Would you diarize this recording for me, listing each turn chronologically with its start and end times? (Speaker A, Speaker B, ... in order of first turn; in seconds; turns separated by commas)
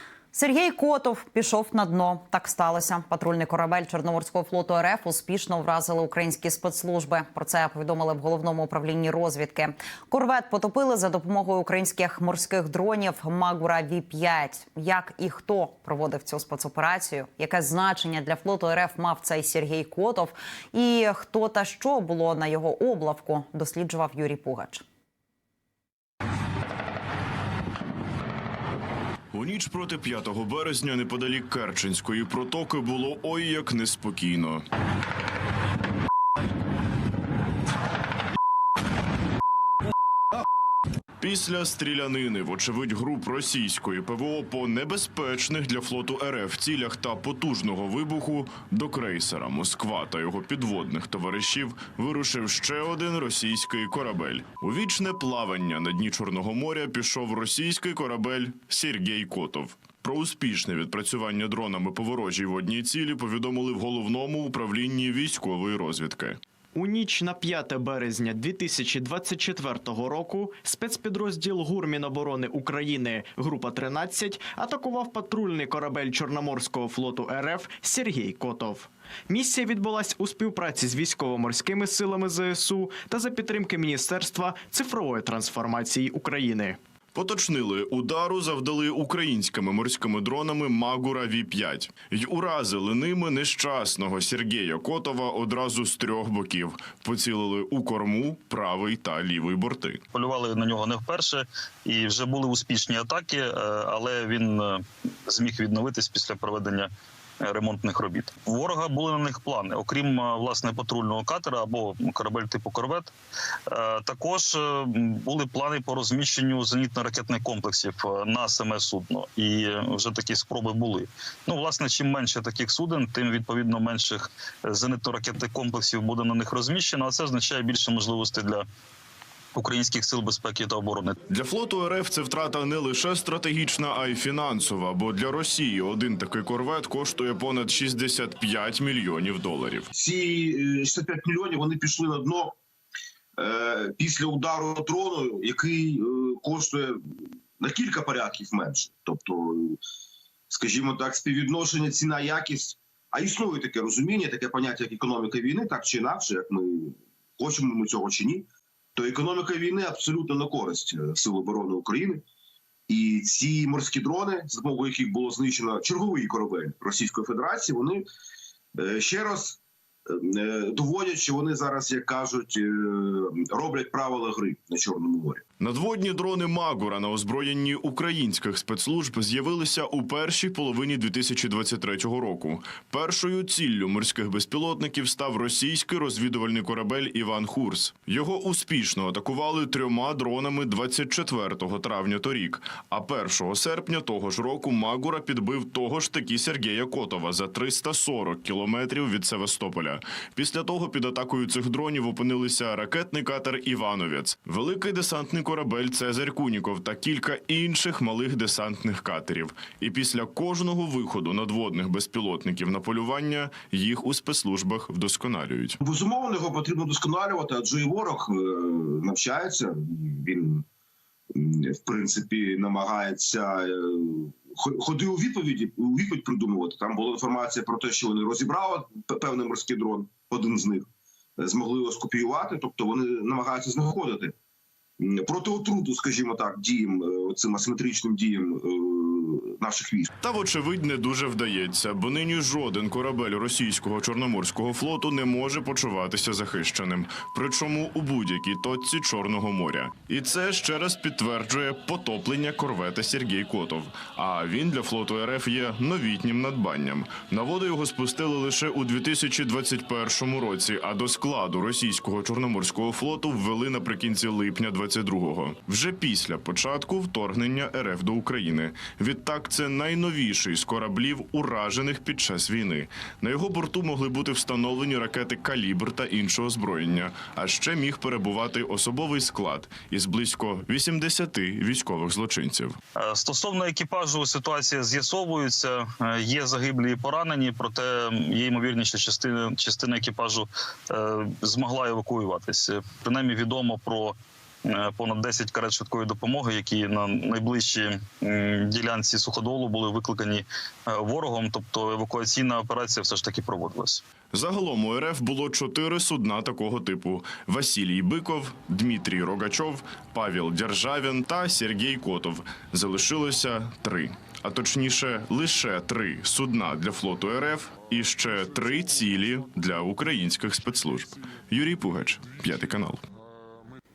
Speaker A: 0.3-24.8, Speaker B: 29.3-34.6, Speaker B: 41.2-66.4, Speaker C: 66.7-86.8, Speaker B: 87.1-100.0, Speaker D: 100.1-106.9, Speaker D: 107.4-113.1, Speaker D: 113.7-128.7, Speaker D: 129.5-131.2, Speaker B: 131.3-139.9, Speaker E: 139.9-142.6, Speaker E: 143.4-147.0, Speaker E: 147.6-149.8, Speaker E: 150.5-162.2, Speaker E: 162.9-168.0, Speaker E: 168.8-175.4, Speaker B: 175.6-215.8, Speaker E: 215.8-220.6, Speaker E: 221.3-230.9, Speaker E: 231.4-234.3, Speaker E: 235.0-240.1, Speaker B: 240.2-282.8, Speaker D: 282.9-294.1, Speaker D: 294.7-304.0, Speaker B: 304.3-323.0